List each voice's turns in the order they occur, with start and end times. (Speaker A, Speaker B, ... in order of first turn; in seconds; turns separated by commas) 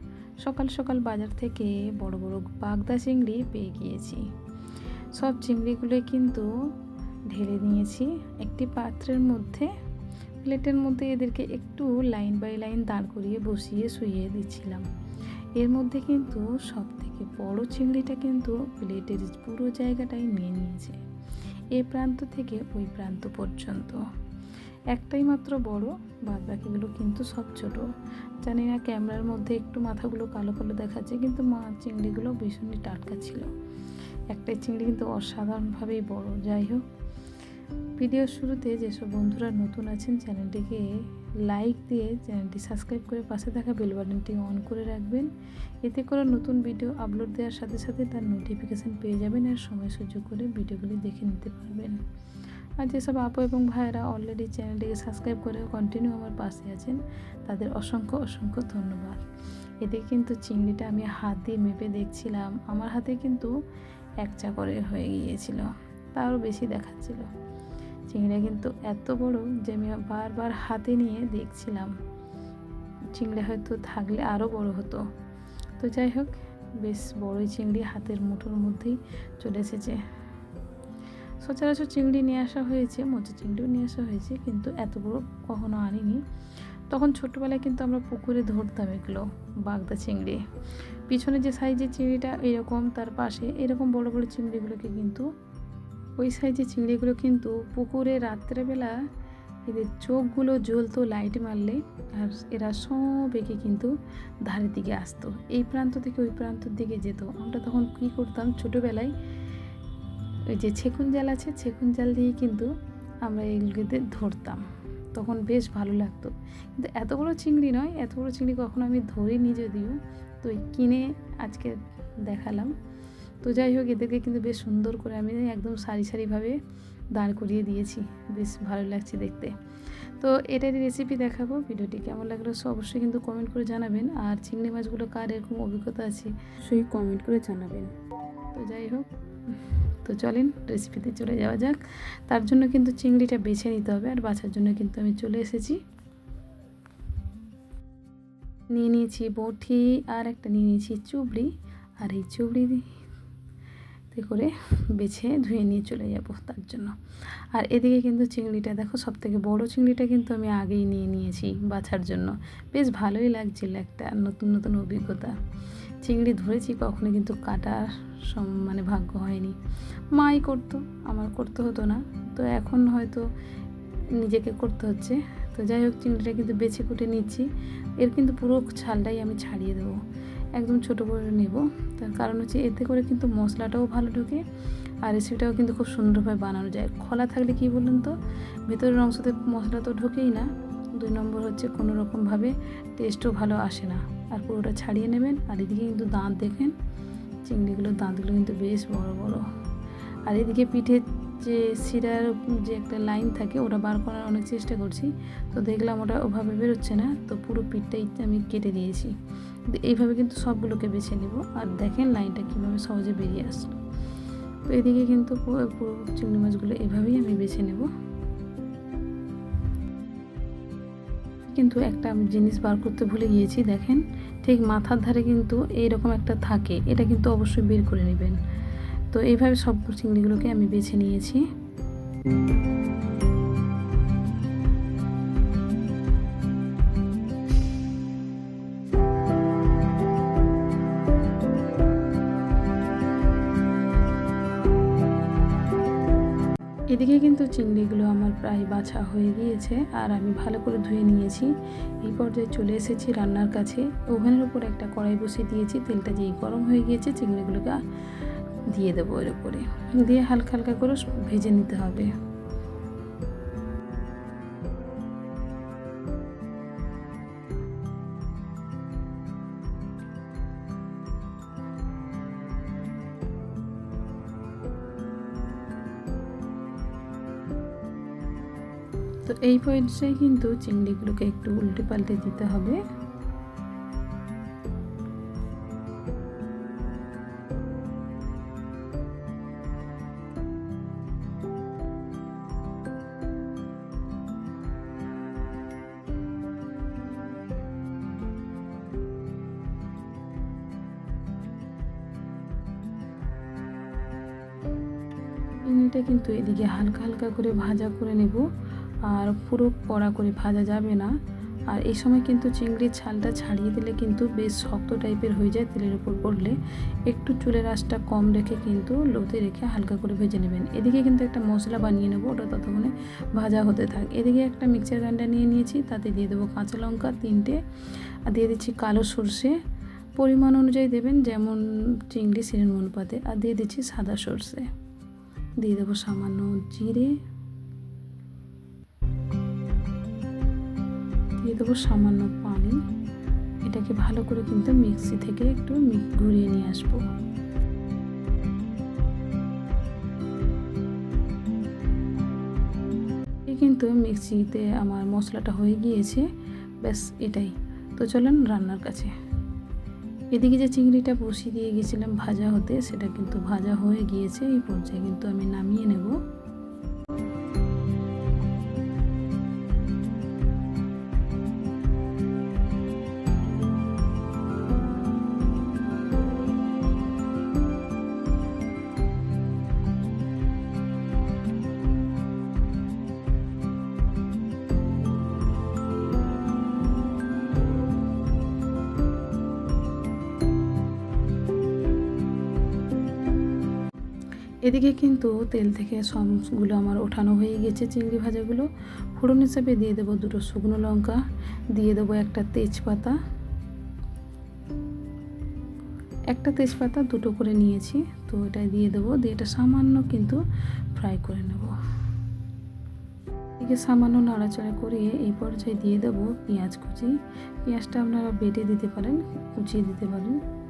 Speaker A: 0.4-4.3, Speaker A: 5.1-6.5, Speaker A: 7.3-9.7, Speaker A: 10.4-14.9, Speaker A: 15.6-21.0, Speaker A: 21.7-24.0, Speaker A: 24.9-27.9, Speaker A: 28.4-33.5, Speaker A: 34.3-36.8, Speaker A: 38.0-45.3, Speaker A: 45.8-52.0, Speaker A: 52.8-59.2, Speaker A: 59.8-63.5, Speaker A: 64.2-67.3, Speaker A: 68.1-71.9, Speaker A: 73.1-75.1, Speaker A: 75.8-80.0, Speaker A: 81.4-86.2, Speaker A: 86.9-90.4, Speaker A: 91.1-95.3, Speaker A: 96.2-99.0, Speaker A: 99.7-109.1, Speaker A: 110.5-112.7, Speaker A: 113.2-122.7, Speaker A: 123.4-126.6, Speaker A: 127.1-137.9, Speaker A: 138.5-145.8, Speaker A: 148.7-152.9, Speaker A: 154.1-165.4, Speaker A: 166.0-169.6, Speaker A: 170.1-173.3, Speaker A: 174.1-180.0, Speaker A: 180.6-184.4, Speaker A: 185.0-188.2, Speaker A: 188.7-196.7, Speaker A: 197.4-199.4, Speaker A: 200.2-209.1, Speaker A: 209.7-213.8, Speaker A: 214.7-217.9, Speaker A: 221.5-228.4, Speaker A: 229.1-231.4, Speaker A: 246.9-262.1, Speaker A: 279.2-282.8, Speaker A: 305.6-308.5, Speaker A: 309.0-311.1, Speaker A: 311.7-327.6, Speaker A: 328.3-329.6, Speaker A: 330.2-334.7, Speaker A: 335.6-337.1, Speaker A: 341.4-342.8, Speaker A: 343.6-347.0, Speaker A: 353.5-356.3, Speaker A: 356.8-359.1, Speaker A: 360.3-366.2, Speaker A: 394.6-401.2, Speaker A: 401.7-403.1, Speaker A: 406.3-410.4, Speaker A: 410.9-411.8, Speaker A: 413.6-420.4